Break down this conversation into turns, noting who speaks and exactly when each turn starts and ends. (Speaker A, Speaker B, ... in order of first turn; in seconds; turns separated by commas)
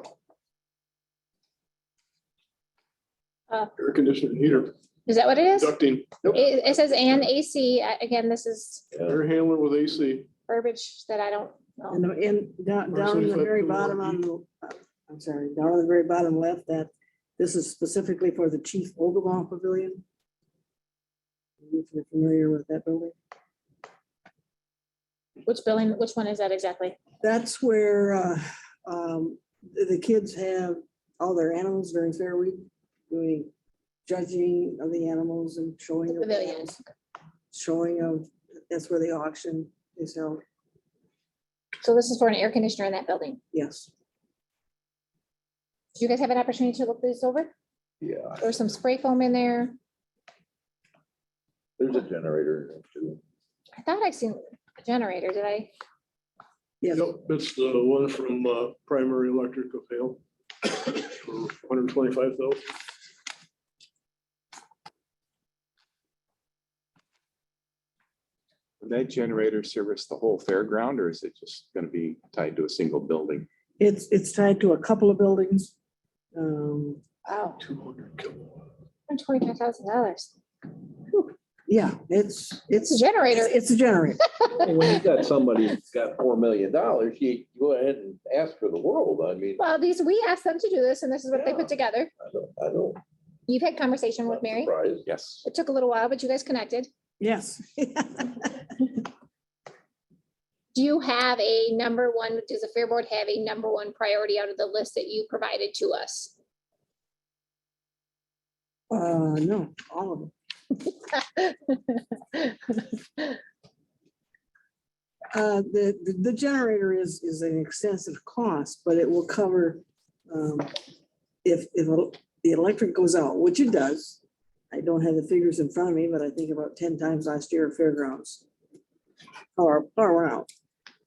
Speaker A: 3.8-4.7, Speaker B: 5.1-8.9, Speaker A: 5.5-6.6, Speaker A: 9.0-10.3, Speaker B: 10.5-12.0, Speaker C: 11.9-20.0, Speaker A: 12.9-14.2, Speaker C: 21.6-23.1, Speaker B: 25.5-27.0, Speaker C: 27.2-33.5, Speaker C: 34.0-36.8, Speaker B: 36.1-36.8, Speaker C: 37.5-40.4, Speaker B: 41.8-43.4, Speaker C: 43.5-43.9, Speaker B: 46.0-47.5, Speaker D: 48.0-48.4, Speaker B: 48.4-49.8, Speaker D: 51.8-53.2, Speaker B: 53.8-55.7, Speaker C: 56.8-57.1, Speaker A: 56.9-62.6, Speaker E: 68.8-73.5, Speaker C: 73.8-75.7, Speaker C: 76.3-77.0, Speaker B: 77.3-77.6, Speaker A: 77.6-78.6, Speaker B: 79.1-80.3, Speaker C: 81.7-84.2, Speaker B: 82.8-83.6, Speaker D: 84.5-89.6, Speaker B: 89.6-92.1, Speaker D: 91.3-93.0, Speaker B: 93.5-94.7, Speaker D: 94.3-95.1, Speaker E: 95.1-95.5, Speaker B: 95.5-96.9, Speaker C: 97.2-98.6, Speaker B: 100.7-106.3, Speaker C: 108.9-110.3, Speaker B: 111.1-113.4, Speaker C: 115.3-120.7, Speaker C: 121.4-128.4, Speaker C: 129.6-130.5